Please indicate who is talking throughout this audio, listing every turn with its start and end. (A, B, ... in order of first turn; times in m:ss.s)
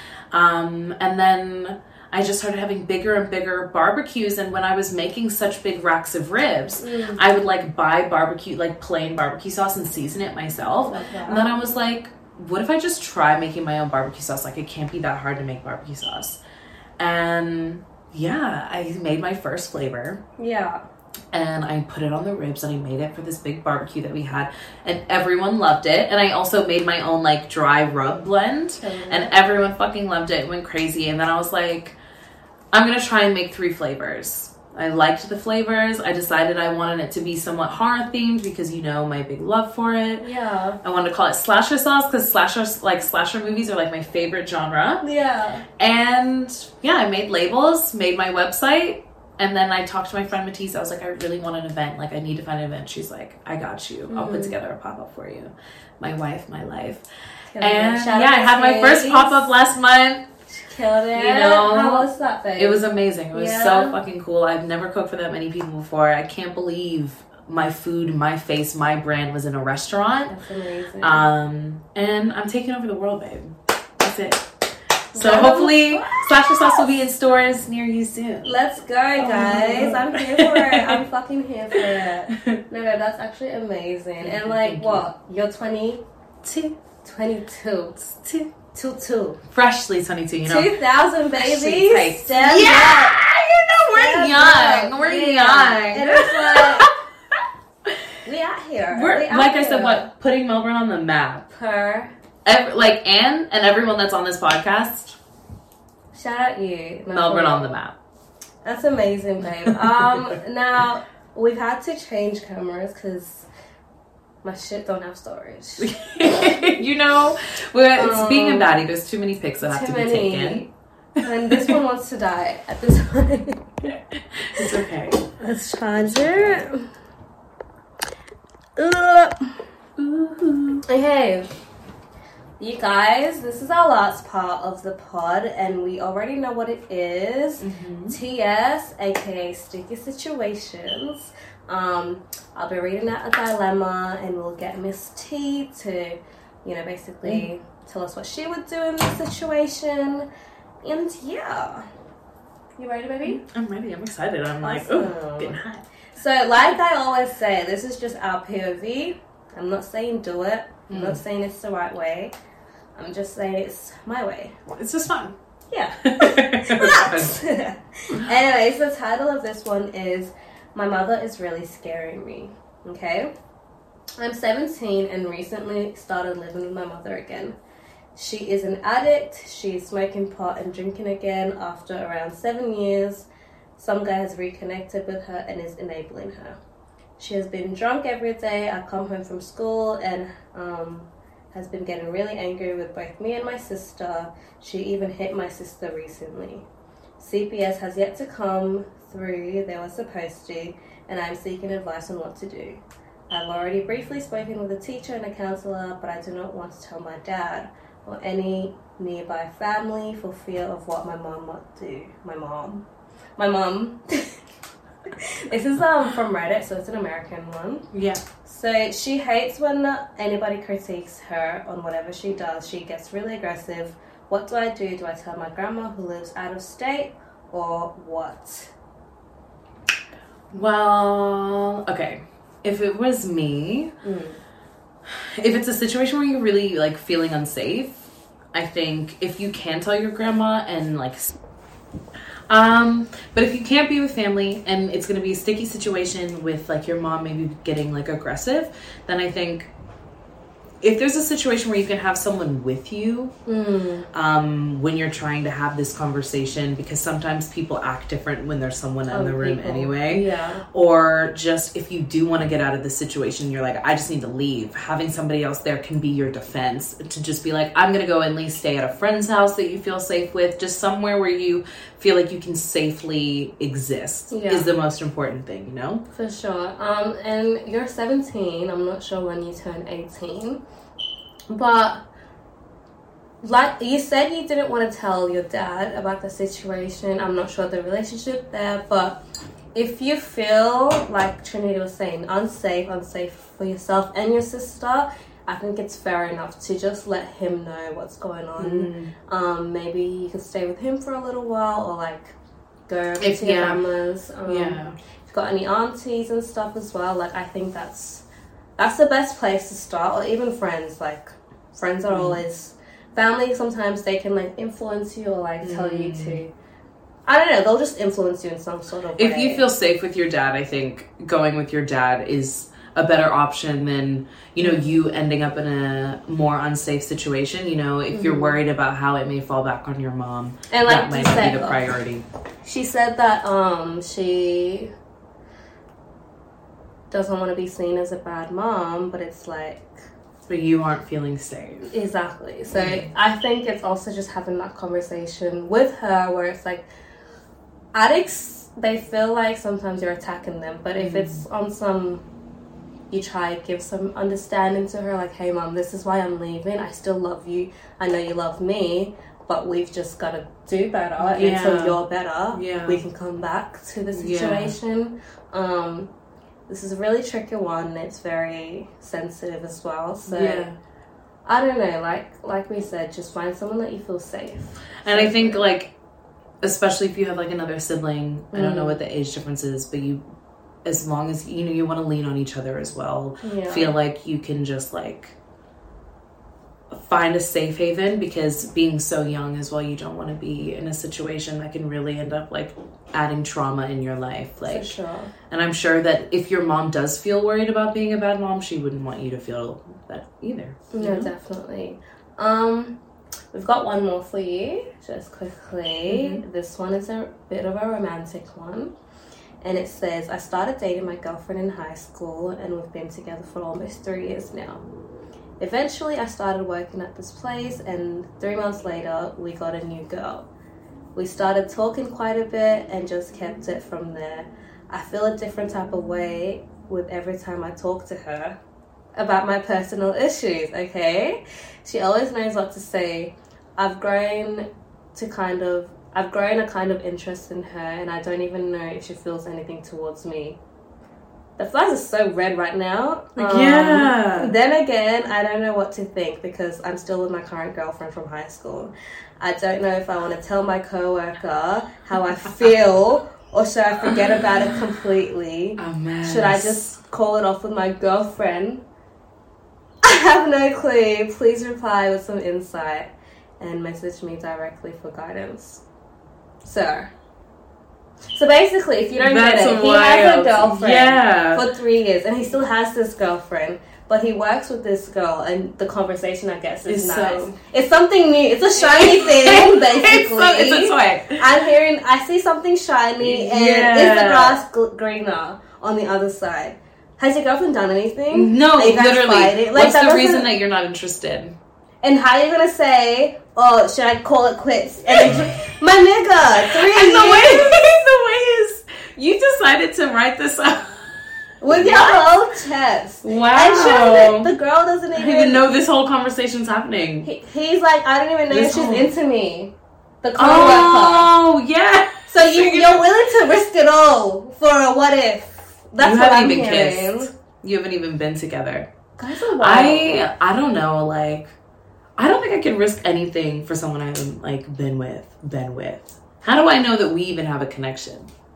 0:00.3-0:16.4 A
0:06.8-0:07.2 B
0:10.9-0:11.6 B
0:17.0-0:20.2 A
0:20.4-0:20.8 B
0:21.3-0:32.0 A
0:28.8-0:29.3 B
0:32.7-0:40.3 A
0:40.2-0:40.8 B
0:40.8-0:45.0 A
0:45.0-0:45.7 B
0:45.8-0:57.0 A
0:54.1-0:54.6 B
0:57.5-0:59.5 B
0:57.6-1:00.3 A
1:00.7-1:04.0 B
1:01.1-1:10.4 A
1:10.3-1:11.3 B
1:11.0-1:14.5 A
1:15.1-1:16.6 B
1:15.1-1:18.5 A
1:18.4-1:26.0 B
1:19.2-1:21.0 A
1:22.4-1:22.6 A
1:24.2-1:25.0 A
1:26.4-1:26.8 A
1:27.0-1:28.1 B
1:28.1-1:28.5 A
1:28.7-1:29.4 B
1:29.5-1:30.7 A
1:30.4-1:33.2 B
1:31.4-1:38.0 A
1:33.9-1:36.9 B
1:38.2-1:40.1 B
1:38.9-1:41.5 A
1:41.5-1:42.1 B
1:42.4-1:45.2 A
1:46.1-1:47.8 B
1:47.1-1:48.0 A
1:48.6-1:53.5 B
1:49.6-1:50.3 A
1:54.4-1:56.0 B
1:55.8-2:00.7 A
1:58.0-1:58.7 B
1:59.6-2:00.7 B
2:01.2-2:01.8 A
2:01.2-2:03.6 B
2:04.4-2:05.2 A
2:05.4-2:06.9 B
2:08.8-2:09.6 B
2:10.0-2:10.8 A
2:10.8-2:11.5 B
2:12.6-2:30.3 B
2:17.6-2:18.2 A
2:30.8-2:31.9 B
2:32.8-2:33.4 B
2:33.2-2:35.8 A
2:34.6-2:35.6 B
2:36.2-2:42.3 B
2:40.9-2:41.2 A
2:43.0-2:44.5 B
2:44.7-2:45.4 A
2:45.7-2:53.3 B
2:46.0-2:47.4 A
2:54.2-2:57.6 B
2:58.2-3:06.6 B
3:07.2-3:16.6 B
3:17.2-3:32.8 B
3:33.4-3:34.4 B
3:35.2-3:37.9 B
3:37.9-3:38.2 A
3:38.4-3:48.7 B
3:50.5-3:53.9 A
3:54.0-3:54.4 B
3:55.0-3:58.0 A
3:58.5-4:01.3 A
4:02.5-4:09.7 A
4:10.8-4:13.3 A
4:13.5-4:14.1 B
4:14.1-4:36.0 A
4:19.1-4:20.6 B
4:34.3-4:34.7 B
4:36.1-4:40.6 B
4:41.5-4:42.0 B
4:43.4-4:49.2 B
4:49.8-5:02.4 B
4:58.6-4:59.1 A
5:02.9-5:08.2 B
5:03.2-5:03.8 A
5:04.5-5:05.0 A
5:08.8-5:16.5 B
5:12.1-5:12.4 A
5:15.6-5:16.4 A
5:17.3-5:19.7 B
5:19.2-5:32.2 A
5:24.6-5:24.9 B
5:28.1-5:28.6 B
5:30.7-5:31.9 B
5:32.6-5:34.9 B
5:37.1-5:40.0 B
5:40.5-5:41.9 A
5:41.9-5:46.9 B
5:42.8-5:43.1 A
5:47.9-5:52.2 B
5:51.0-5:51.4 A
5:53.1-6:06.1 B
6:01.2-6:02.0 A
6:02.5-6:03.0 A
6:04.1-6:04.7 A
6:06.7-6:10.7 B
6:10.3-6:10.8 A
6:11.5-6:15.7 B
6:15.0-6:15.9 A
6:16.6-6:20.2 A
6:18.5-6:19.0 B
6:20.8-6:25.4 A
6:23.4-6:24.0 B
6:26.9-6:35.0 A
6:34.6-6:35.3 B
6:35.5-6:41.3 A
6:40.9-6:43.0 B
6:43.5-6:48.9 B
6:46.1-6:46.4 A
6:49.6-6:54.8 B
6:55.6-7:00.5 B
7:01.2-7:08.6 B
7:09.2-7:20.6 B
7:21.6-7:38.8 B
7:23.4-7:24.5 A
7:34.1-7:34.7 A
7:35.8-7:36.9 A
7:40.0-7:45.8 B
7:46.6-7:47.1 B
7:48.3-8:10.5 B
7:49.2-7:51.6 A
7:56.9-7:57.6 A
7:58.8-8:01.5 A
8:03.2-8:04.6 A
8:08.3-8:11.6 A
8:12.0-8:17.8 B
8:15.2-8:15.5 A
8:16.6-8:21.0 A
8:21.6-8:25.7 B
8:21.7-8:22.3 A
8:23.2-8:24.5 A
8:25.1-8:27.3 A
8:27.2-8:31.3 B
8:28.5-8:29.1 A
8:30.4-8:33.1 A
8:32.3-8:37.3 B
8:36.0-8:38.9 A
8:39.2-8:40.3 B
8:39.6-8:41.5 A
8:42.2-8:48.3 A